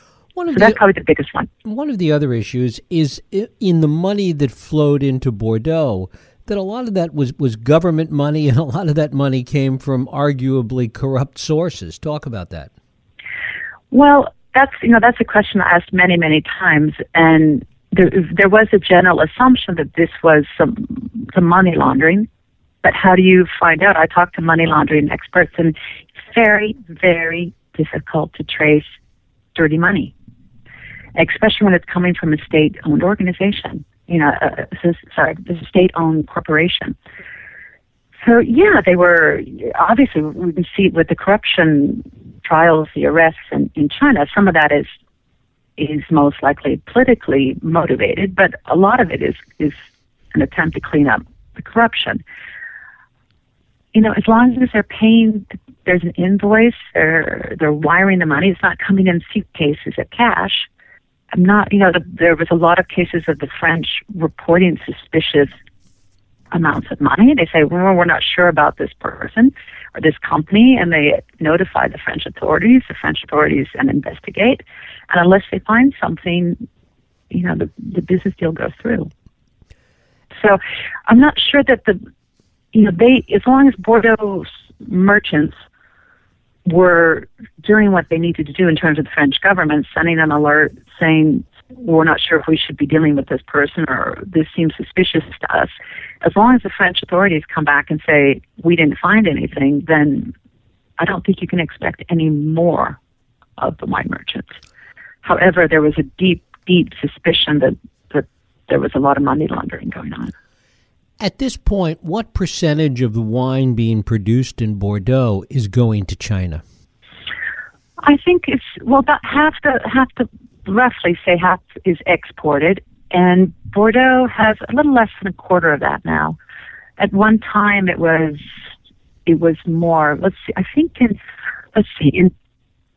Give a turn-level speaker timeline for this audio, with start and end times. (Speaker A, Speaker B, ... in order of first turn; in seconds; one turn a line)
Speaker A: 0.4-0.8
Speaker B: 0.5-1.5
Speaker A: 1.6-12.7
Speaker B: 13.9-22.3
Speaker B: 22.8-28.9
Speaker B: 29.6-30.1
Speaker B: 31.1-37.0
Speaker B: 38.2-44.9
Speaker B: 45.8-49.8
Speaker B: 50.3-52.2
Speaker B: 53.9-60.7
Speaker B: 61.3-65.6
Speaker B: 66.5-76.7
Speaker B: 77.3-79.1
Speaker B: 80.4-82.0
Speaker B: 82.7-85.6
Speaker B: 86.7-95.7
Speaker B: 96.2-100.3
Speaker B: 101.0-103.0
Speaker B: 103.6-104.6
Speaker B: 105.2-110.3
Speaker A: 111.2-116.6
Speaker B: 118.0-126.4
Speaker B: 127.0-128.5
Speaker B: 129.3-131.2
Speaker B: 131.7-132.3